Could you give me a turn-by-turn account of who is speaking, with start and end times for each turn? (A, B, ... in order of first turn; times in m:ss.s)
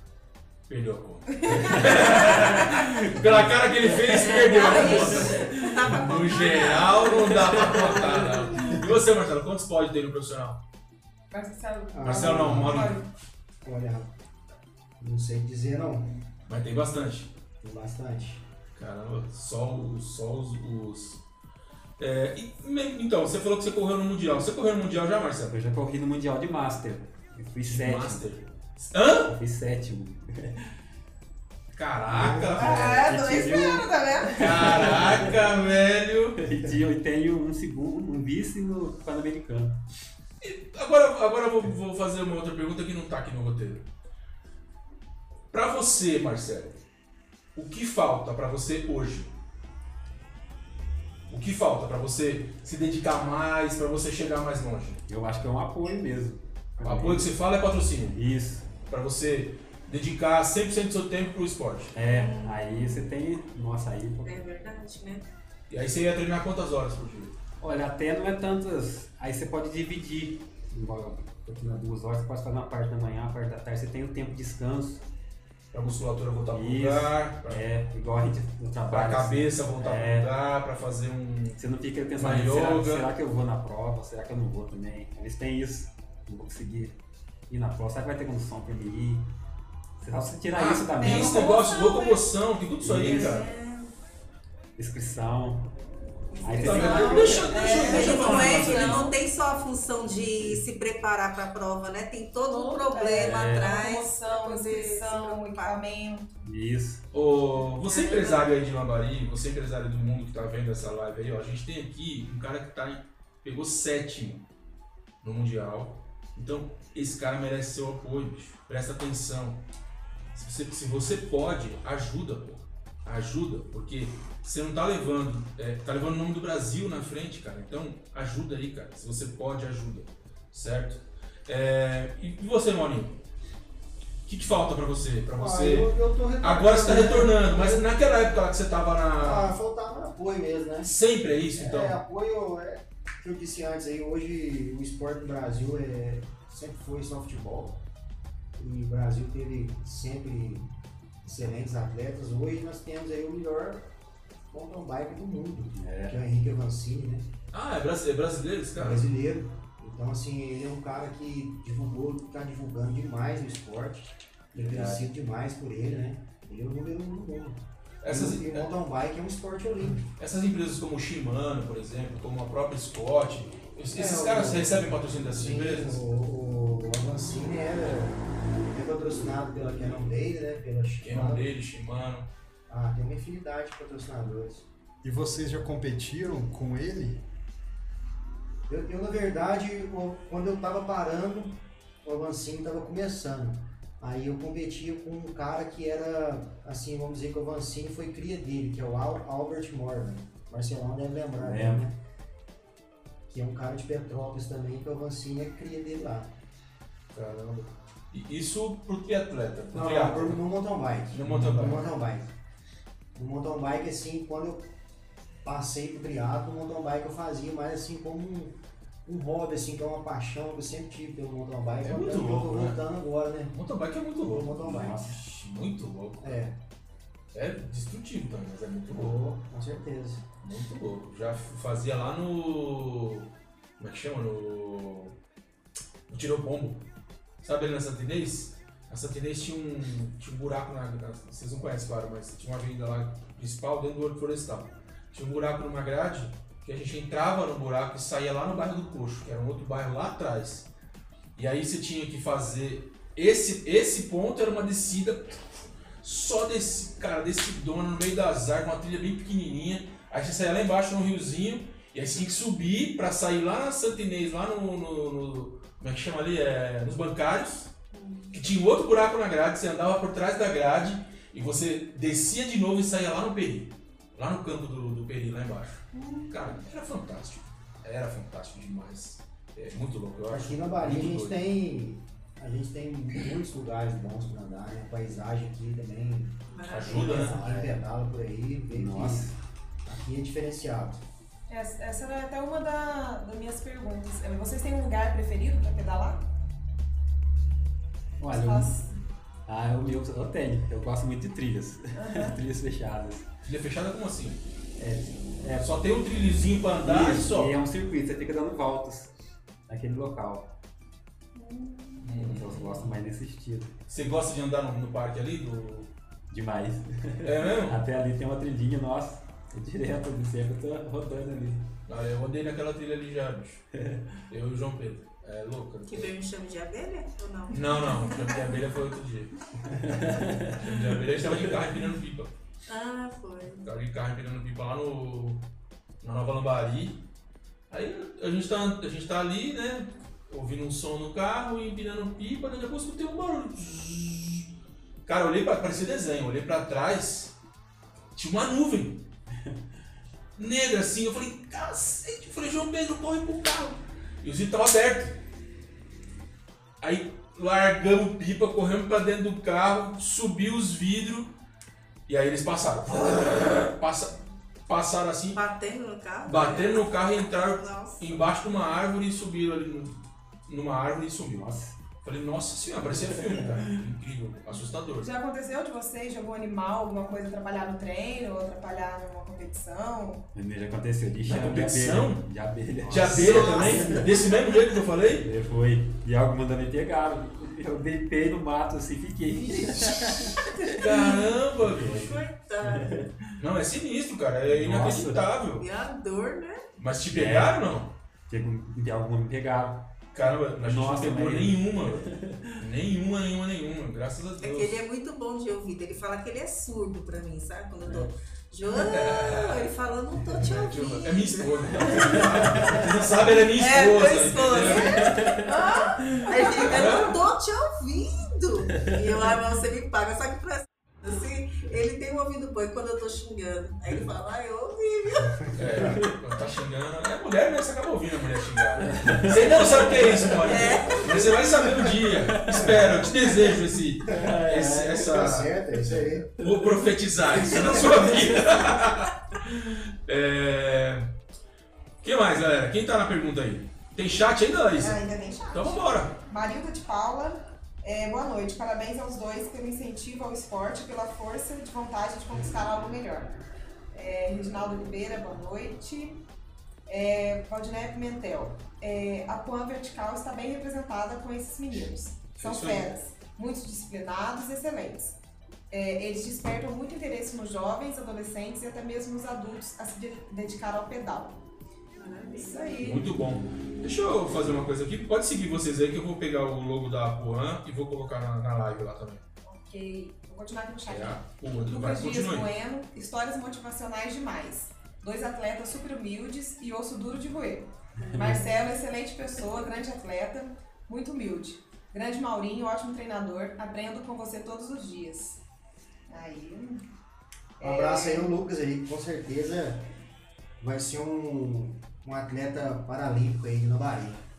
0:00.7-0:10.6 A
0:01.3-0:02.8 B
0:01.5-0:04.2 C
0:04.1-0:08.2 D
0:04.5-0:05.7 B
0:05.1-0:05.5 C
0:07.5-0:07.8 C
0:11.3-0:13.1 B
0:11.9-0:12.9 E
0:12.0-0:13.0 A
0:13.6-0:14.1 E
0:15.0-0:16.1 E
0:16.5-0:17.3 A
0:17.6-0:18.4 E
0:18.7-0:21.2 A
0:22.0-0:25.5 A
0:25.5-0:28.2 C
0:27.7-0:29.3 A
0:29.3-0:30.6 C
0:31.7-0:33.0 A
0:32.1-0:35.4 C
0:32.2-0:32.5 F
0:32.5-0:34.9 B
0:34.4-0:36.4 A
0:36.4-0:39.8 C
0:40.4-0:43.8 A
0:45.5-0:46.8 A
0:47.5-0:49.3 A
0:51.3-0:55.0 A
0:55.1-0:57.3 C
0:56.8-0:58.2 A
0:58.1-0:58.7 C
0:58.9-1:01.9 A
1:01.9-1:04.4 C
1:02.0-1:03.1 D
1:04.2-1:05.3 D
1:05.7-1:07.3 A
1:07.6-1:15.0 C
1:15.7-1:17.6 A
1:16.5-1:20.3 C
1:18.9-1:21.6 A
1:21.6-1:26.9 C
1:22.2-1:23.0 A
1:27.5-1:29.3 C
1:30.0-1:31.5 C
1:30.5-1:33.5 A
1:30.9-1:32.1 B
1:31.4-1:32.2 D
1:32.8-1:33.4 C
1:33.0-1:33.9 D
1:34.8-1:35.7 C
1:36.4-1:39.0 C
1:36.5-1:38.9 B
1:36.5-1:39.1 A
1:36.5-1:45.7 D
1:37.0-1:37.4 E
1:42.5-1:46.3 B
1:43.1-1:43.7 C
1:46.4-1:47.0 C
1:47.1-1:54.4 A
1:47.8-1:48.5 D
1:55.2-1:59.6 A
2:00.3-2:13.2 A
2:14.2-2:19.5 A
2:15.3-2:18.0 E
2:19.2-2:20.9 E
2:20.8-2:22.0 A
2:21.5-2:27.8 E
2:28.6-2:30.7 E
2:31.2-2:33.9 E
2:34.5-2:37.3 E
2:35.8-2:36.2 C
2:37.5-2:39.1 A
2:38.7-2:50.0 E
2:44.5-2:45.0 C
2:48.0-2:48.7 A
2:50.2-2:56.0 A
2:53.9-3:01.4 E
3:01.0-3:02.3 A
3:02.7-3:04.7 E
3:05.0-3:07.2 F
3:08.7-3:22.0 E
3:21.4-3:21.8 C
3:23.3-3:26.3 E
3:27.1-3:30.4 A
3:29.7-3:32.3 E
3:31.1-3:31.9 A
3:33.1-3:34.7 E
3:35.4-3:43.6 E
3:41.8-3:42.8 A
3:43.5-3:46.4 A
3:44.2-3:45.1 E
3:44.7-3:45.1 C
3:46.2-3:46.6 E
3:47.3-3:49.2 A
3:48.9-3:50.2 E
3:50.4-3:55.2 A
3:56.1-3:56.8 A
3:57.4-4:10.7 A
4:11.3-4:15.4 A
4:16.0-4:27.7 A
4:27.9-4:28.4 D
4:28.3-4:41.4 A
4:35.9-4:36.4 D
4:40.3-4:49.3 E
4:46.5-4:47.3 D
4:46.6-4:47.4 A
4:47.2-4:47.7 C
4:48.7-4:49.3 C
4:49.8-4:51.0 E
4:51.5-4:56.2 B
4:58.2-4:58.8 C
4:58.3-4:58.9 B
4:59.5-5:03.3 C
5:01.9-5:02.4 B
5:03.4-5:04.4 A
5:04.8-5:05.7 C
5:05.6-5:07.5 A
5:06.8-5:09.1 C
5:09.7-5:10.5 C
5:11.3-5:12.0 D
5:12.0-5:12.8 A
5:12.1-5:13.7 C
5:13.9-5:15.9 A
5:16.3-5:21.7 C
5:17.2-5:17.8 A
5:21.8-5:23.6 A
5:23.8-5:24.2 C
5:24.3-5:26.1 A
5:25.9-5:28.4 D
5:27.5-5:29.3 A
5:29.7-5:31.5 C
5:30.5-5:32.3 A
5:32.7-5:33.7 D
5:33.6-5:35.4 A
5:36.0-5:37.0 A
5:37.7-5:44.5 A
5:45.0-5:47.3 A
5:48.1-5:49.0 A
5:50.4-5:55.2 A
5:56.8-6:01.3 A
6:02.1-6:05.4 A
6:05.3-6:08.2 D
6:06.2-6:11.4 A
6:11.3-6:11.8 C
6:12.0-6:15.1 A
6:12.8-6:13.8 C
6:15.0-6:20.2 B
6:20.3-6:24.1 C
6:21.2-6:22.2 A
6:22.8-6:25.3 A
6:23.1-6:24.3 D
6:25.2-6:30.8 C
6:30.6-6:32.2 A
6:31.6-6:33.3 C
6:31.9-6:33.0 D
6:33.4-6:35.6 A
6:34.4-6:35.2 C
6:35.6-6:36.6 D
6:36.8-6:37.9 A
6:37.1-6:37.6 C
6:38.3-6:39.9 C
6:40.1-6:44.8 A
6:40.6-6:42.6 C
6:44.4-6:52.3 D
6:48.7-6:49.7 A
6:50.3-6:55.3 A
6:52.0-6:52.8 C
6:53.5-7:05.6 D
6:55.0-6:55.5 C
6:56.0-6:56.3 C
6:56.3-6:57.2 A
7:05.5-7:21.1 A
7:05.8-7:06.1 C
7:08.8-7:10.5 C
7:10.4-7:11.7 D
7:12.0-7:13.2 C
7:12.6-7:13.0 E
7:14.0-7:15.1 C
7:14.9-7:16.3 E
7:16.4-7:16.8 C
7:17.6-7:18.4 C
7:22.0-7:26.1 A
7:24.8-7:33.4 B
7:33.9-7:36.2 B
7:36.9-7:45.2 B
7:42.4-7:42.9 A
7:45.7-7:51.4 B
7:52.0-7:52.7 D
7:52.3-7:53.1 B
7:52.8-7:59.2 A
7:59.4-8:15.4 B
8:00.9-8:02.5 A
8:08.0-8:08.5 C
8:16.1-8:16.8 B
8:17.6-8:18.3 B
8:17.6-8:19.9 E
8:20.6-8:24.2 E